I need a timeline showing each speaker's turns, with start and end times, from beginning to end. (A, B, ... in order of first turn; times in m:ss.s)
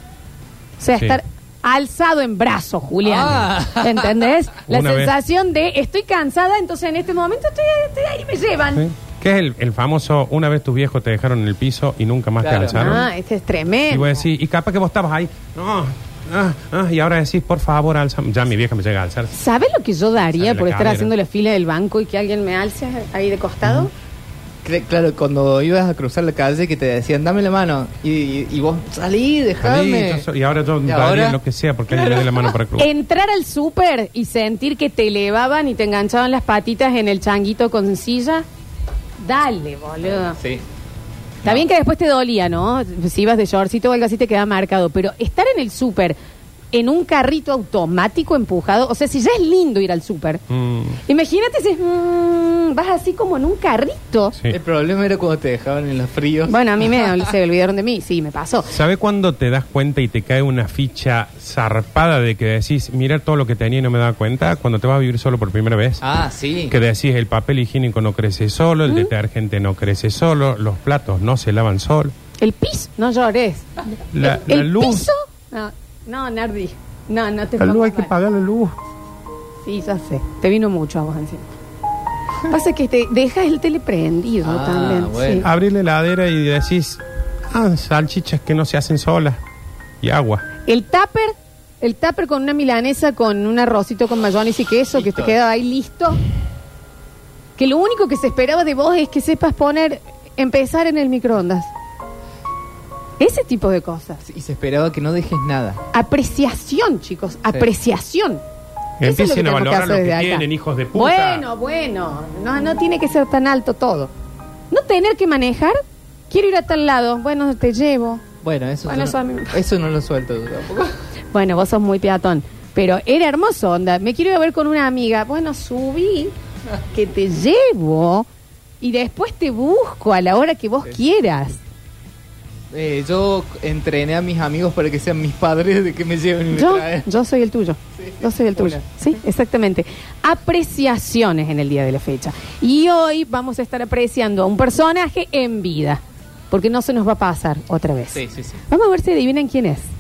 0:00.8-0:08.8 A
0:03.0-0:04.2 B
0:04.7-0:05.1 C
0:08.8-0:13.1 C
0:12.4-0:13.0 B
0:12.7-0:14.2 A
0:13.9-0:19.3 C
0:19.3-0:23.9 A
0:20.3-0:21.1 C
0:24.6-0:30.3 B
0:29.6-0:32.9 C
0:30.8-0:32.6 B
0:32.8-0:38.4 A
0:39.2-0:40.4 A
0:40.1-0:40.6 B
0:41.4-0:46.2 A
0:46.7-0:50.4 A
0:50.5-0:51.0 C
0:51.0-0:54.4 A
0:54.5-0:57.2 B
0:56.5-0:58.7 A
0:58.7-1:06.0 C
1:06.0-1:06.7 B
1:06.7-1:12.1 C
1:08.9-1:09.1 A
1:12.4-1:13.7 A
1:14.1-1:15.1 C
1:14.2-1:18.1 A
1:17.6-1:18.8 C
1:19.6-1:21.5 A
1:22.5-1:25.5 A
1:24.4-1:25.4 B
1:25.4-1:27.0 C
1:27.5-1:29.4 C
1:30.0-1:30.4 C
1:30.6-1:36.2 A
1:34.9-1:35.4 B
1:37.6-1:41.7 A
1:43.2-1:44.2 A
1:44.2-1:45.8 B
1:45.9-1:48.4 A
1:49.0-1:51.4 C
1:49.0-1:54.1 A
1:54.7-1:55.8 A
1:56.3-1:58.2 A
1:58.4-2:00.9 B
1:58.9-1:59.5 A
2:01.3-2:06.3 A
2:06.9-2:08.3 A
2:08.8-2:11.6 A
2:12.7-2:17.1 B
2:16.5-2:29.9 A
2:18.0-2:18.8 B
2:28.1-2:28.6 B